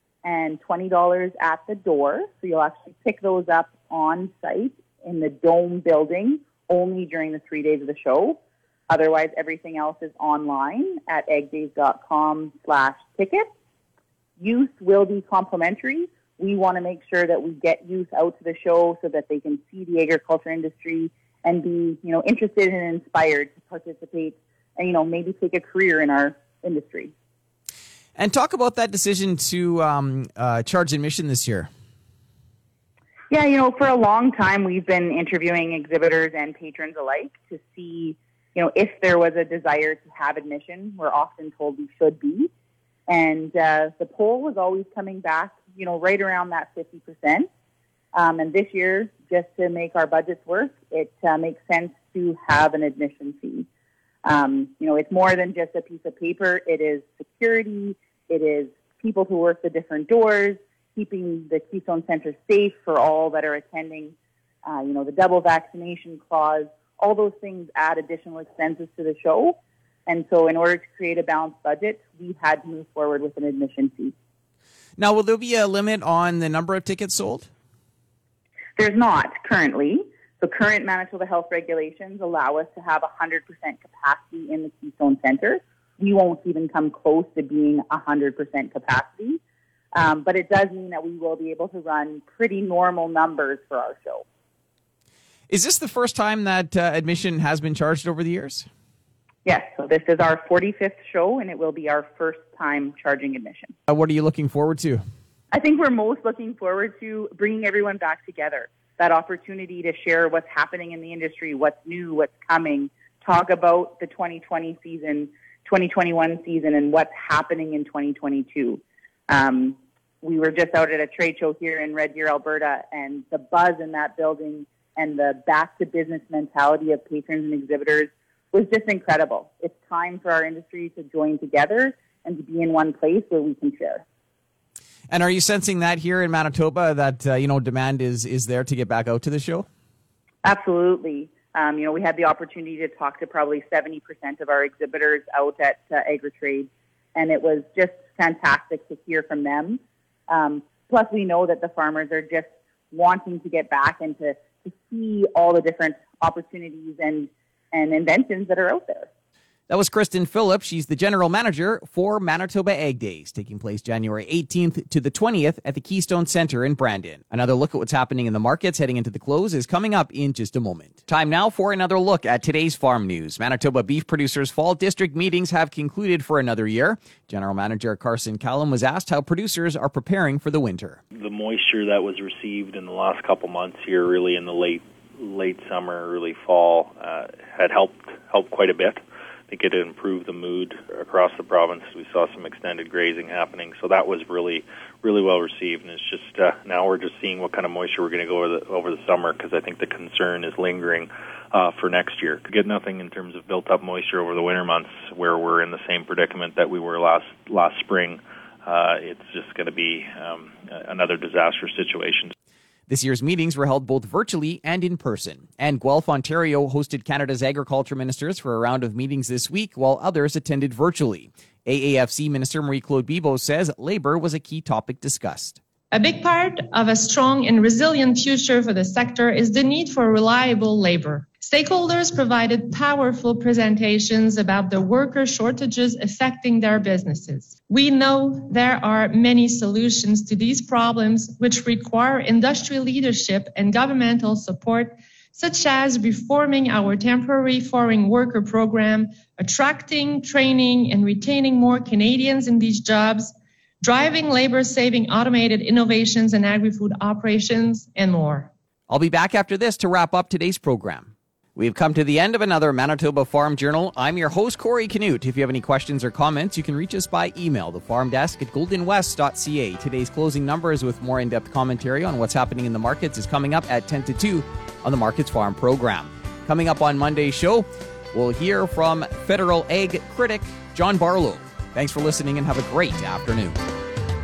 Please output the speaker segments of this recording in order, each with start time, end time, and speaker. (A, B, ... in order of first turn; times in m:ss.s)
0:00.2-0:13.5 A
0:14.4-0:27.1 A
0:28.2-0:31.7 B
0:33.3-0:42.5 A
0:43.1-0:47.5 A
0:48.1-0:53.7 A
0:54.2-1:14.1 A
1:15.0-1:17.5 B
1:18.8-1:29.4 A
1:30.0-1:34.2 A
1:35.5-1:38.7 B
1:39.4-1:43.7 A
1:43.9-1:45.0 B
1:45.5-2:14.0 A
2:15.1-2:19.7 B
2:20.4-2:39.1 A
2:39.7-3:01.0 B
3:01.2-3:32.3 C
3:32.9-3:45.6 B
3:45.9-4:18.5 D
4:18.9-4:43.6 B